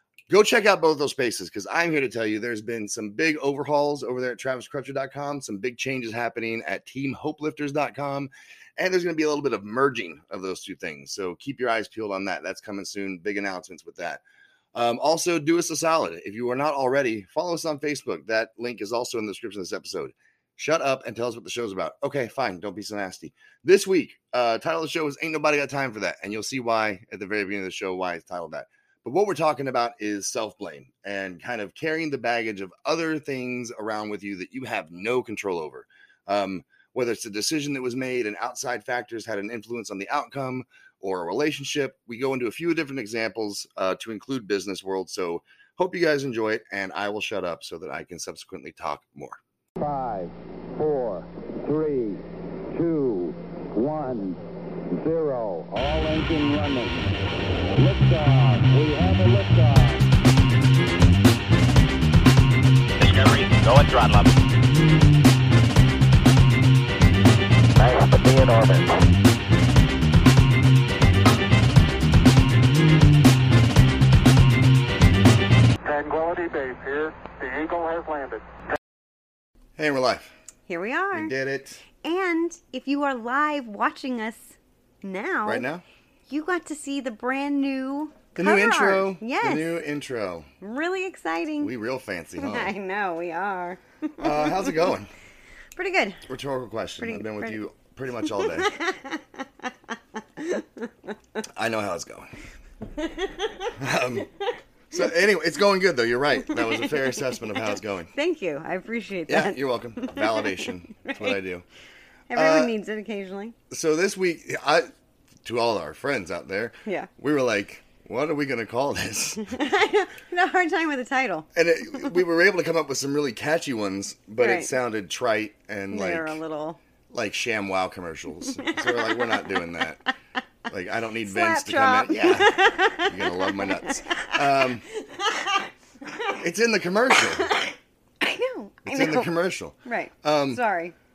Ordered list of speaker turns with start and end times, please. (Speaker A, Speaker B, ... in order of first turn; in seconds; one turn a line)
Speaker A: 0.3-14.2
Speaker A: 14.7-49.4
Speaker B: 49.8-57.0
Speaker B: 57.7-60.1
Speaker C: 63.0-64.3
Speaker C: 67.8-68.9
Speaker D: 75.8-78.5
Speaker A: 79.8-80.3
Speaker E: 80.7-81.3
Speaker A: 81.1-81.8
Speaker E: 82.0-85.6
Speaker A: 85.4-85.8
Speaker E: 86.3-89.7
Speaker A: 88.3-90.5
Speaker E: 90.6-91.7
Speaker A: 91.6-92.7
Speaker E: 92.4-94.9
Speaker A: 94.2-95.1
Speaker E: 95.8-96.2
Speaker A: 96.3-98.8
Speaker E: 97.0-97.6
Speaker E: 98.2-100.9
Speaker A: 101.5-102.3
Speaker E: 102.9-103.7
Speaker A: 103.7-104.3
Speaker A: 104.9-108.1
Speaker E: 106.5-111.4
Speaker A: 109.3-111.6
Speaker E: 112.3-113.5
Speaker A: 112.3-112.7
Speaker A: 113.7-114.9
Speaker A: 115.4-119.6
Speaker E: 119.4-121.5
Speaker A: 121.5-126.4
Speaker E: 124.4-124.7
Speaker E: 125.9-126.8
Speaker A: 127.1-130.1
Speaker E: 128.6-129.8
Speaker A: 130.7-134.9
Speaker E: 131.2-135.7
Speaker A: 136.3-137.5
Speaker E: 137.3-139.3
Speaker A: 138.8-140.6
Speaker E: 139.8-140.9